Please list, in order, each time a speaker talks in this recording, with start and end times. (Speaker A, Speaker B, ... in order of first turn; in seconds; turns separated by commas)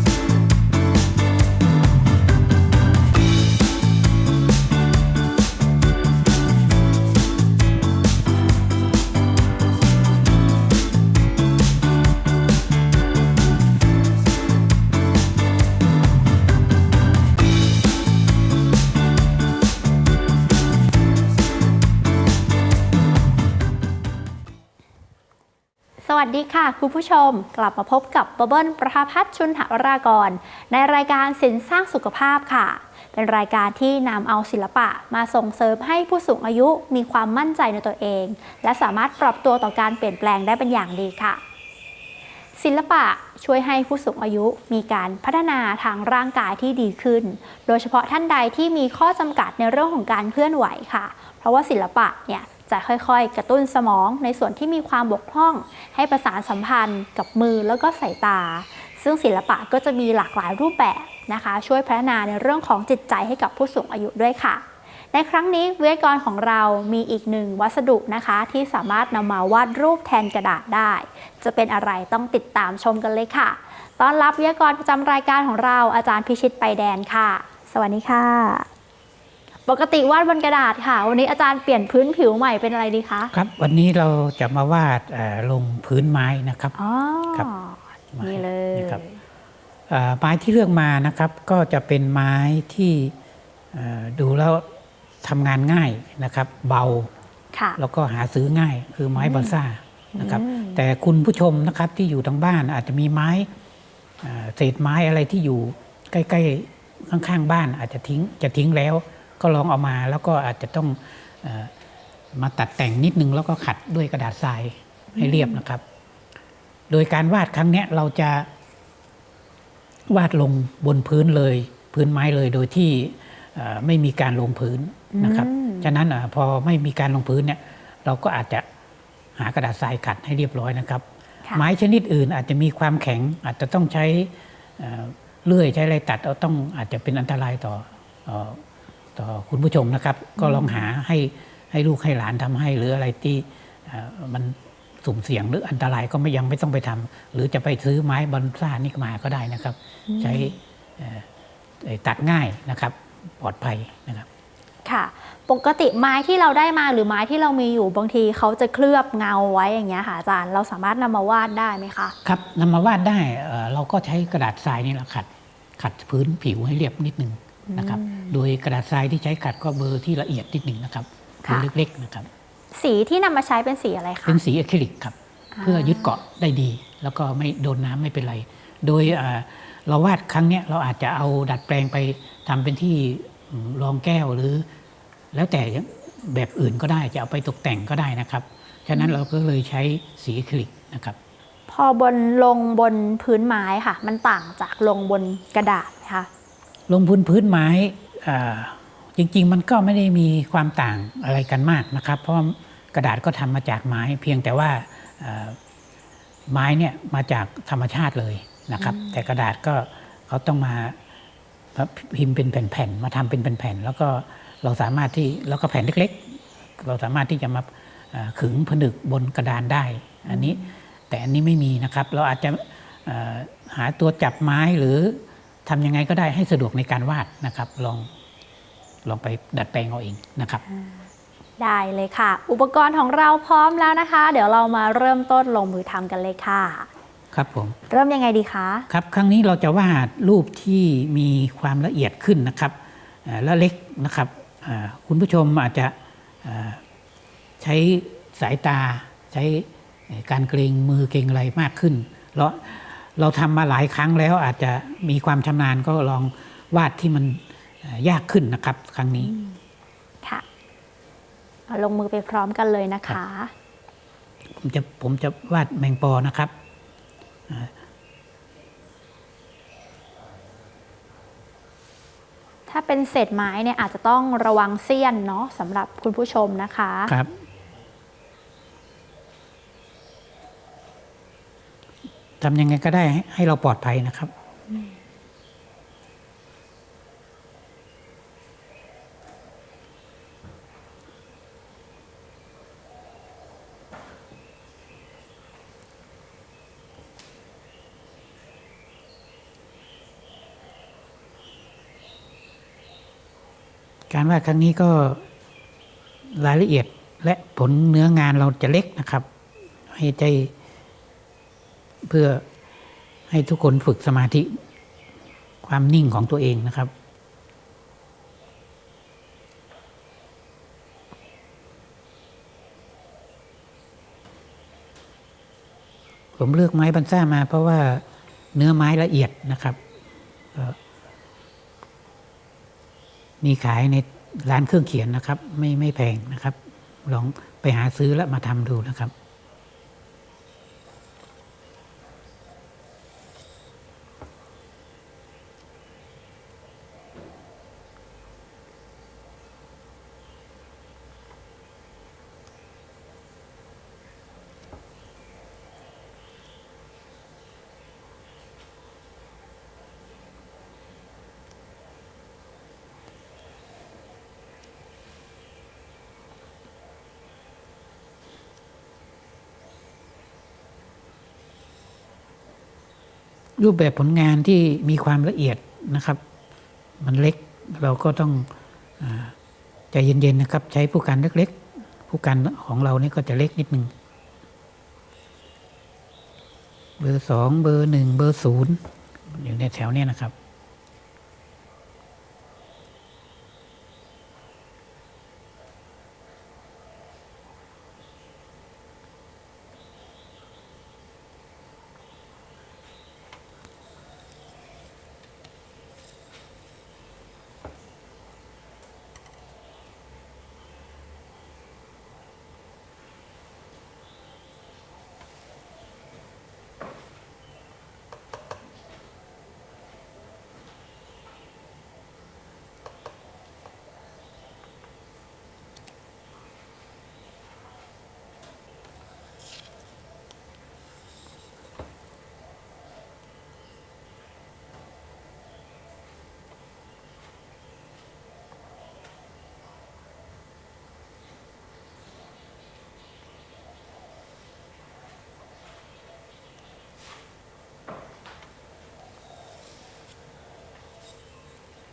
Speaker A: 26.0-41.4, Speaker A: 42.6-78.7, Speaker A: 79.7-83.3, Speaker B: 83.3-86.8, Speaker A: 86.8-89.2, Speaker B: 88.1-89.0, Speaker B: 89.9-93.1, Speaker B: 93.7-94.7, Speaker B: 95.2-97.1, Speaker A: 97.5-97.8, Speaker B: 97.8-103.5, Speaker A: 99.2-99.5, Speaker A: 100.1-100.8, Speaker B: 104.2-111.7, Speaker B: 112.3-115.8, Speaker A: 115.1-115.6, Speaker B: 116.9-118.5, Speaker B: 120.1-128.7, Speaker A: 125.1-125.9, Speaker B: 129.3-138.6, Speaker B: 139.2-151.2, Speaker A: 140.4-140.8, Speaker A: 150.1-150.5, Speaker B: 151.8-154.3, Speaker A: 154.8-162.2, Speaker B: 162.2-172.3, Speaker A: 167.7-168.3, Speaker A: 172.7-174.4, Speaker B: 174.2-184.6, Speaker A: 175.5-176.1, Speaker B: 185.3-191.2, Speaker A: 191.7-196.3, Speaker B: 196.9-205.6, Speaker B: 206.5-211.0, Speaker A: 208.8-209.2, Speaker B: 211.7-228.1, Speaker A: 220.3-220.7, Speaker B: 229.0-230.6, Speaker A: 231.6-236.9, Speaker B: 237.3-237.8, Speaker A: 237.9-238.9, Speaker B: 238.9-246.8, Speaker B: 247.6-259.3, Speaker A: 259.2-259.5, Speaker A: 261.7-263.5, Speaker B: 264.5-266.5, Speaker B: 267.5-267.7, Speaker A: 272.7-277.1, Speaker B: 277.1-277.3, Speaker B: 282.4-284.3, Speaker B: 304.1-305.2, Speaker B: 306.3-309.3, Speaker B: 309.9-310.5, Speaker B: 312.0-312.4, Speaker B: 313.3-314.6, Speaker B: 315.6-316.9, Speaker B: 326.4-329.8, Speaker B: 333.4-339.1, Speaker B: 373.6-376.2, Speaker B: 377.0-379.3, Speaker B: 379.9-383.9, Speaker B: 387.0-390.3